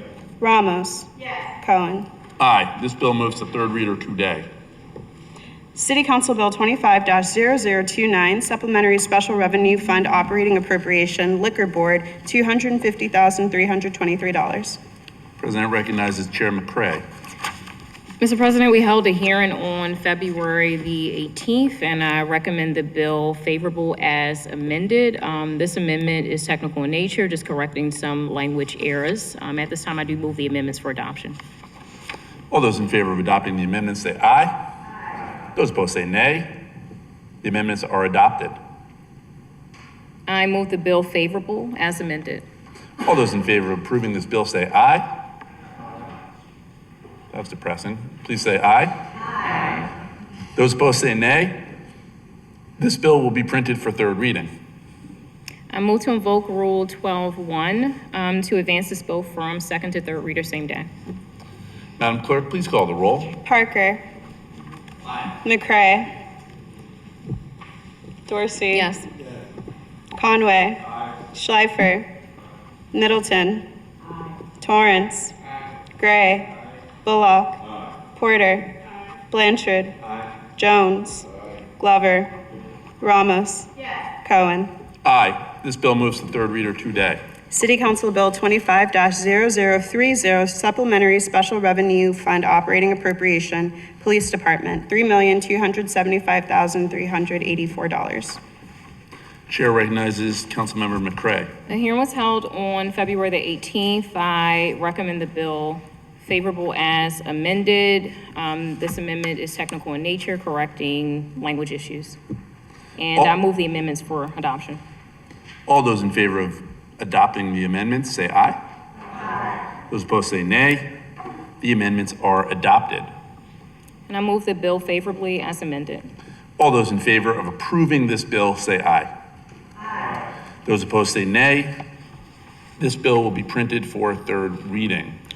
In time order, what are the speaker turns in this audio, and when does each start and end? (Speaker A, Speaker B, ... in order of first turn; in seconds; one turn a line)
Speaker A: 0.4-2.1
Speaker B: 2.4-4.5
Speaker A: 5.8-14.8
Speaker B: 15.4-17.0
Speaker C: 18.2-31.4
Speaker B: 32.5-34.5
Speaker B: 35.6-36.5
Speaker B: 37.4-38.6
Speaker C: 40.3-42.5
Speaker B: 43.0-45.1
Speaker B: 47.3-48.9
Speaker B: 50.6-51.6
Speaker B: 52.8-54.5
Speaker C: 55.7-60.9
Speaker B: 62.0-63.4
Speaker A: 63.4-64.0
Speaker A: 65.4-66.1
Speaker A: 68.3-69.0
Speaker A: 70.2-72.1
Speaker A: 72.9-73.7
Speaker A: 74.6-75.3
Speaker A: 76.0-76.5
Speaker A: 77.0-77.6
Speaker A: 78.1-78.8
Speaker A: 79.3-80.0
Speaker A: 80.6-81.3
Speaker A: 81.8-82.3
Speaker A: 83.0-84.7
Speaker B: 85.0-87.2
Speaker A: 87.5-98.4
Speaker B: 99.5-101.5
Speaker C: 101.7-112.2
Speaker C: 113.0-114.8
Speaker B: 115.7-118.6
Speaker B: 119.9-120.9
Speaker B: 121.6-123.1
Speaker C: 124.1-126.1
Speaker B: 126.6-129.1
Speaker B: 130.7-131.8
Speaker B: 132.8-135.2